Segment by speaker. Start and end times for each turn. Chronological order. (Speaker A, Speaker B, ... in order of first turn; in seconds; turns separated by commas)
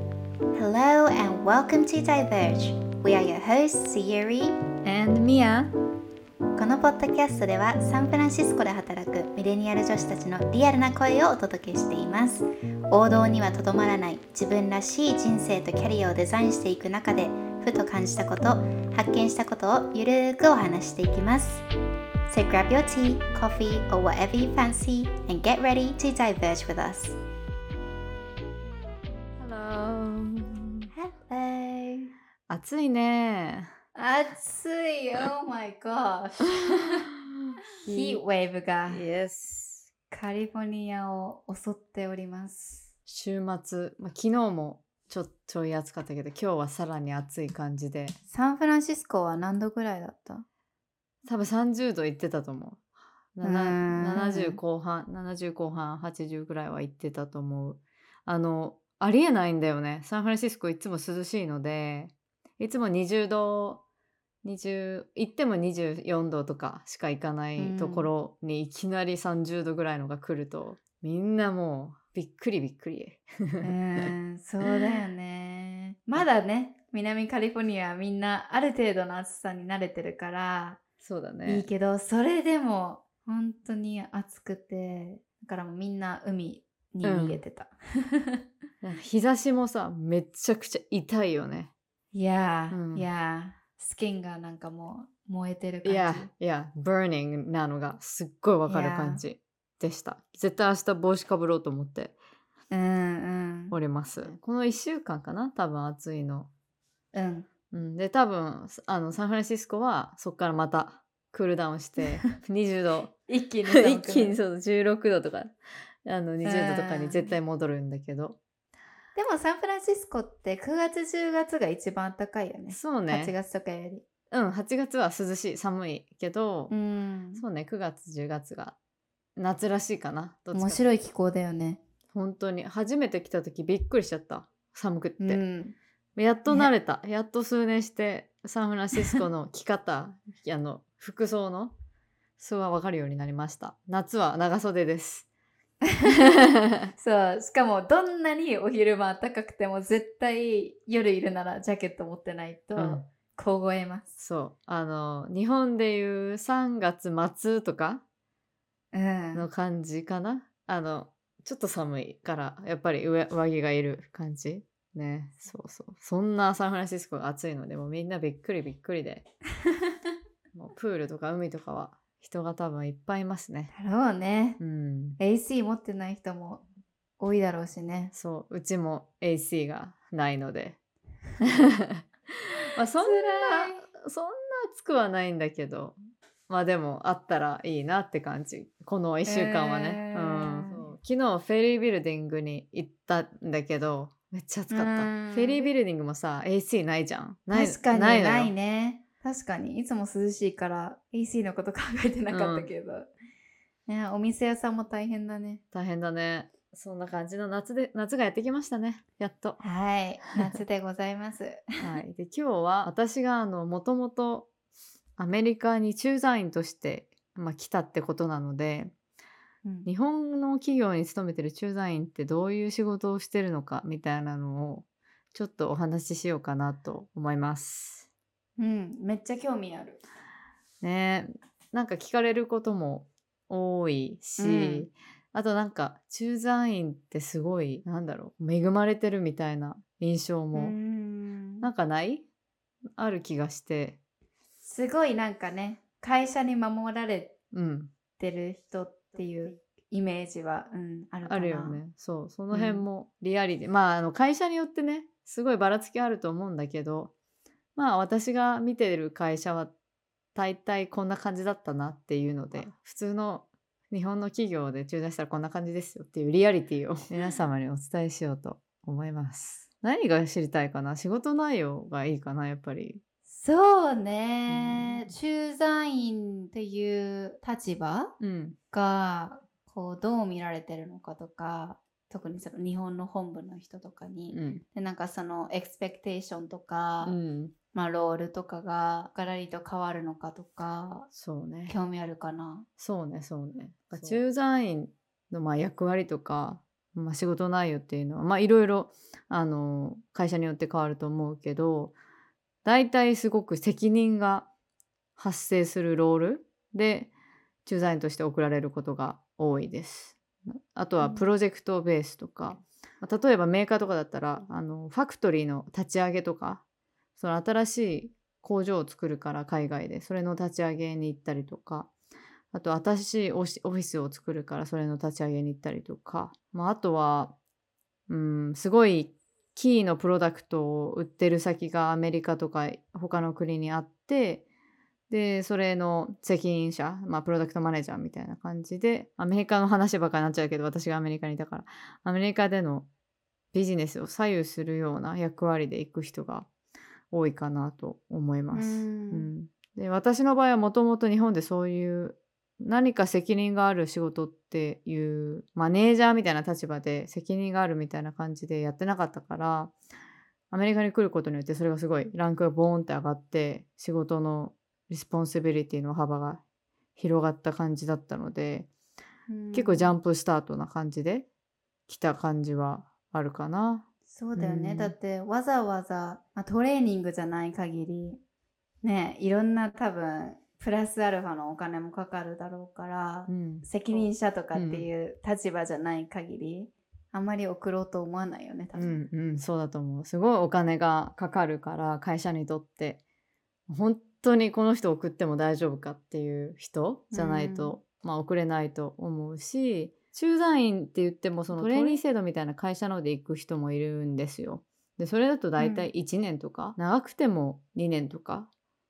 Speaker A: 0.5-4.5, Speaker B: 4.8-5.7, Speaker A: 6.5-21.6, Speaker A: 22.3-27.2, Speaker B: 29.4-30.9, Speaker A: 30.9-32.1, Speaker B: 32.5-33.7, Speaker A: 34.0-37.1, Speaker A: 37.8-39.0, Speaker B: 37.9-38.2, Speaker B: 38.9-39.9, Speaker A: 40.1-42.9, Speaker B: 43.0-48.2, Speaker A: 48.3-50.5, Speaker B: 51.2-52.8, Speaker B: 53.4-63.8, Speaker A: 53.4-54.6, Speaker B: 64.4-73.7, Speaker A: 67.6-68.1, Speaker A: 73.6-80.8, Speaker B: 81.0-81.7, Speaker A: 81.4-88.4, Speaker B: 87.0-87.4, Speaker B: 88.8-91.7, Speaker A: 92.1-96.3, Speaker B: 92.7-93.0, Speaker B: 95.8-102.2, Speaker A: 98.7-99.2, Speaker A: 102.7-103.8, Speaker B: 103.7-106.5, Speaker A: 107.1-107.5, Speaker B: 107.7-113.1, Speaker A: 113.3-114.4, Speaker B: 113.7-115.5, Speaker B: 116.0-118.4, Speaker A: 116.4-117.3, Speaker A: 119.1-124.0, Speaker B: 122.7-123.3, Speaker B: 124.3-126.7, Speaker A: 126.7-127.4, Speaker B: 127.3-128.8, Speaker B: 129.4-130.8, Speaker A: 130.5-131.8, Speaker B: 132.1-135.4, Speaker A: 135.2-135.8, Speaker B: 136.2-141.8, Speaker A: 138.9-139.2, Speaker B: 142.4-145.3, Speaker A: 145.9-146.2, Speaker B: 146.0-146.9, Speaker A: 146.9-154.2, Speaker B: 152.8-153.0, Speaker B: 154.2-158.0, Speaker A: 158.9-159.4, Speaker B: 159.3-169.2, Speaker B: 170.5-173.7, Speaker A: 173.7-174.6, Speaker B: 174.6-175.2, Speaker A: 175.2-176.6, Speaker A: 177.2-178.1, Speaker B: 178.1-180.8, Speaker B: 181.4-186.0, Speaker A: 183.0-183.8, Speaker B: 186.5-198.5, Speaker A: 189.2-190.9, Speaker A: 194.7-195.7, Speaker A: 197.5-203.1, Speaker B: 202.3-202.7, Speaker A: 203.9-205.6, Speaker B: 205.7-209.6, Speaker A: 209.6-211.6, Speaker B: 211.8-214.5, Speaker B: 215.2-218.9, Speaker B: 219.8-228.1, Speaker A: 228.6-230.0, Speaker B: 230.8-240.8, Speaker A: 234.4-234.9, Speaker A: 240.5-241.7, Speaker B: 241.6-242.2, Speaker B: 243.0-244.0, Speaker A: 244.6-247.4, Speaker B: 247.5-247.9, Speaker A: 248.2-251.8, Speaker B: 251.2-257.1, Speaker A: 252.5-252.8, Speaker B: 257.8-259.7, Speaker B: 260.3-273.0, Speaker A: 273.3-278.1, Speaker B: 274.5-275.1, Speaker B: 278.2-278.6, Speaker A: 278.7-287.2, Speaker B: 284.3-284.6, Speaker B: 287.0-287.5, Speaker A: 287.7-291.1, Speaker B: 291.1-291.8, Speaker A: 291.7-292.6, Speaker B: 292.8-301.9, Speaker A: 293.9-294.2, Speaker B: 302.6-304.5, Speaker B: 305.2-307.1, Speaker B: 307.6-316.6, Speaker A: 311.0-311.3, Speaker B: 317.2-321.9, Speaker B: 322.5-327.3, Speaker B: 328.1-334.4, Speaker B: 335.1-342.9, Speaker B: 343.5-346.5, Speaker B: 347.1-359.7, Speaker A: 348.5-349.3, Speaker B: 360.5-366.4, Speaker B: 366.9-368.7, Speaker A: 369.3-369.9, Speaker B: 369.5-371.3, Speaker B: 371.9-373.9, Speaker A: 374.1-378.2, Speaker B: 374.4-374.9, Speaker A: 378.8-389.1, Speaker B: 383.3-384.0, Speaker B: 384.5-384.9, Speaker B: 388.8-393.0, Speaker B: 393.7-408.5, Speaker A: 397.1-397.8, Speaker A: 401.5-402.0, Speaker A: 405.6-405.9